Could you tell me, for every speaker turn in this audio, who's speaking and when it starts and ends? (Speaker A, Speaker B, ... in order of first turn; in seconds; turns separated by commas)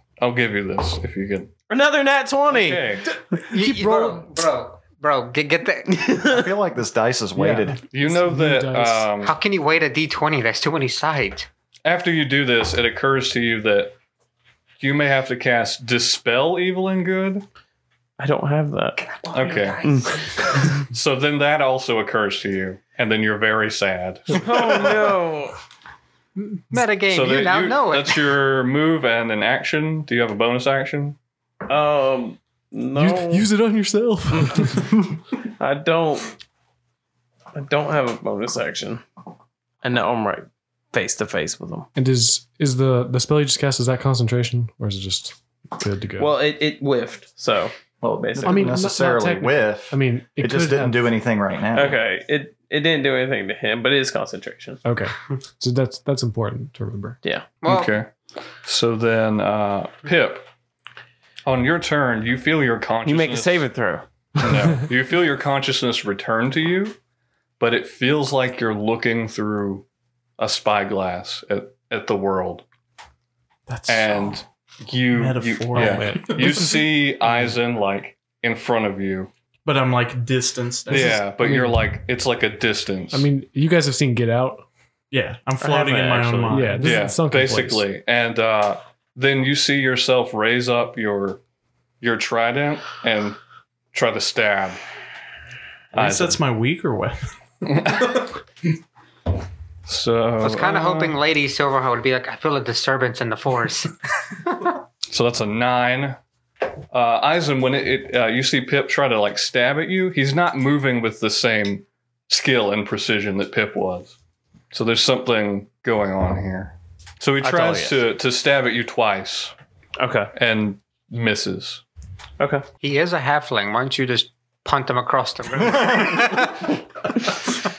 Speaker A: 0.2-1.5, Speaker B: 1.7-2.9, Speaker A: 2.5-3.1, Speaker C: 3.3-4.3, Speaker D: 3.5-6.2, Speaker B: 5.9-6.5, Speaker E: 6.2-7.8, Speaker C: 7.4-9.1, Speaker A: 7.9-9.3, Speaker D: 9.2-11.5, Speaker A: 11.8-13.9, Speaker A: 14.8-17.4, Speaker B: 18.2-19.1, Speaker D: 19.0-20.4, Speaker A: 19.3-19.9, Speaker B: 19.8-20.7, Speaker A: 20.6-24.9, Speaker B: 24.3-25.6, Speaker D: 26.4-28.3, Speaker A: 27.1-31.2, Speaker B: 31.7-33.5, Speaker C: 33.0-34.9, Speaker B: 34.3-34.7, Speaker B: 35.6-36.4, Speaker B: 37.5-39.0, Speaker B: 39.8-41.9, Speaker C: 42.0-46.3, Speaker B: 46.2-48.8, Speaker E: 48.0-52.0, Speaker C: 48.4-51.2, Speaker B: 51.7-54.8, Speaker C: 54.9-57.2, Speaker B: 57.2-57.5, Speaker D: 57.6-57.9, Speaker A: 57.7-58.1, Speaker A: 58.6-60.5, Speaker A: 61.5-63.7, Speaker B: 63.0-64.1, Speaker A: 64.4-67.0, Speaker A: 67.6-69.8, Speaker A: 70.4-72.6, Speaker F: 73.7-74.4, Speaker A: 73.9-79.3, Speaker F: 75.1-76.7, Speaker C: 75.7-76.8, Speaker F: 79.7-81.2, Speaker A: 80.9-83.3, Speaker C: 80.9-81.8, Speaker C: 83.1-84.7, Speaker F: 85.1-87.0, Speaker B: 85.6-86.6, Speaker C: 86.5-87.8, Speaker A: 86.7-91.4, Speaker A: 92.0-93.4, Speaker A: 93.9-94.8, Speaker F: 95.9-97.3, Speaker A: 95.9-96.4, Speaker A: 97.6-98.3, Speaker A: 99.9-101.2, Speaker D: 100.4-104.5, Speaker A: 105.1-106.2, Speaker A: 106.9-114.2, Speaker A: 114.7-119.5, Speaker B: 117.4-117.9, Speaker B: 120.0-120.3, Speaker A: 120.3-121.8, Speaker B: 122.4-122.7, Speaker D: 122.8-126.7